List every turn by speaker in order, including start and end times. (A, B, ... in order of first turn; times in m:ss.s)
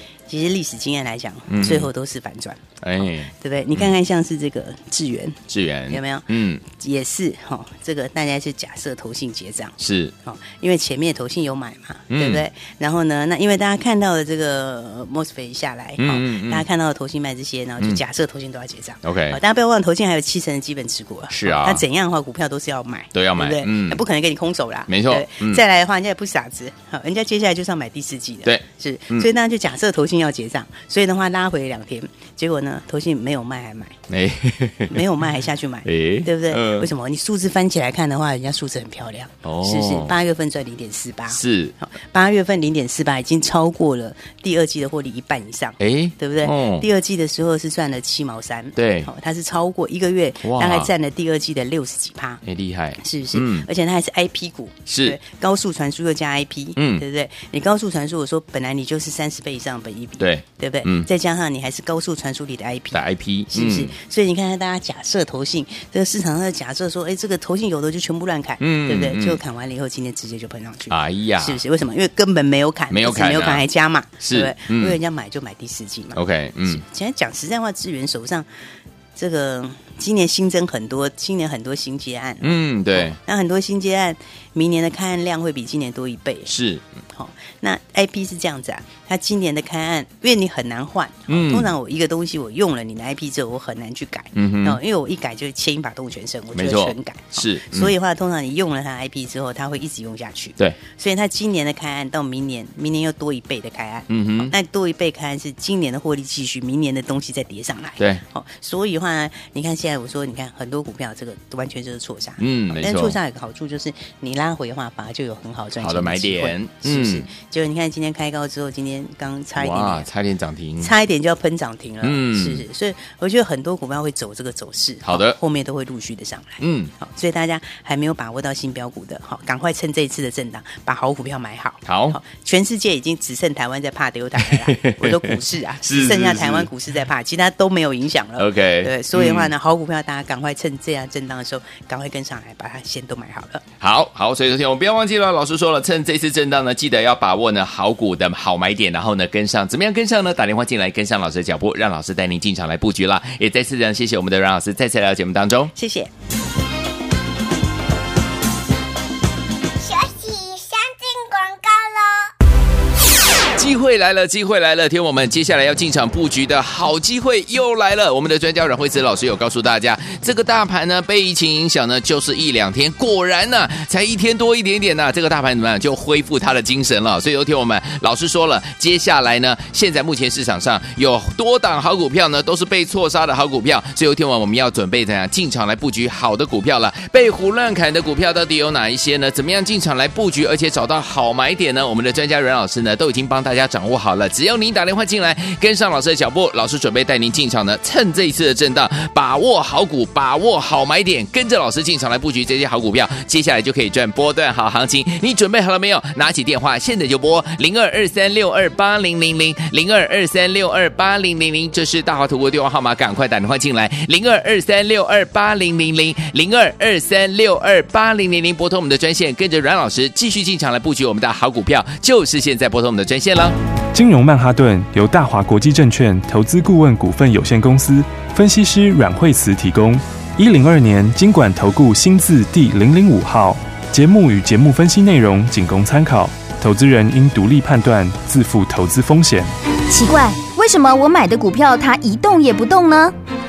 0:00.3-0:34.0 A
0:01.5-0:01.9 B
0:02.8-0:03.8 B
0:05.5-0:06.6 B
0:09.8-0:10.1 B
0:12.1-0:12.4 B
0:16.0-0:16.6 B
0:19.0-0:19.4 B
0:21.3-0:21.8 B
0:23.1-0:24.0 B
0:24.9-0:25.6 B
0:28.4-0:29.3 B
0:34.1-0:35.0 B
0:34.9-0:52.4 A
0:35.8-0:36.9 B
0:39.4-0:40.2 B
0:41.3-0:41.8 B
0:45.8-0:46.9 B
0:48.8-0:49.1 B
0:50.4-0:50.9 B
0:52.4-0:53.7 B
0:53.0-1:18.5 A
0:54.9-0:55.2 B
0:56.8-0:57.0 B
1:00.2-1:01.1 B
1:02.9-1:03.9 B
1:08.6-1:09.4 B
1:10.9-1:11.6 B
1:12.9-1:13.6 B
1:14.2-1:15.0 B
1:16.1-1:16.8 B
1:19.2-1:26.5 A
1:22.4-1:23.2 B
1:26.5-1:26.8 B
1:27.1-2:00.1 A
1:31.3-1:31.7 B
1:34.3-1:34.8 B
1:36.5-1:37.9 B
1:44.1-1:44.5 B
1:52.4-1:53.2 B
1:55.8-1:57.3 B
1:59.6-2:00.9 B
2:00.8-2:23.6 A
2:02.0-2:02.6 B
2:05.0-2:05.4 B
2:06.6-2:06.9 B
2:11.8-2:12.2 B
2:14.4-2:16.7 B
2:18.4-2:19.5 B
2:23.8-2:35.7 B
2:35.7-2:36.1 A
2:39.8-2:42.3 C
2:43.5-3:43.6 B
3:43.9-3:59.5 D
3:59.9-4:03.1 E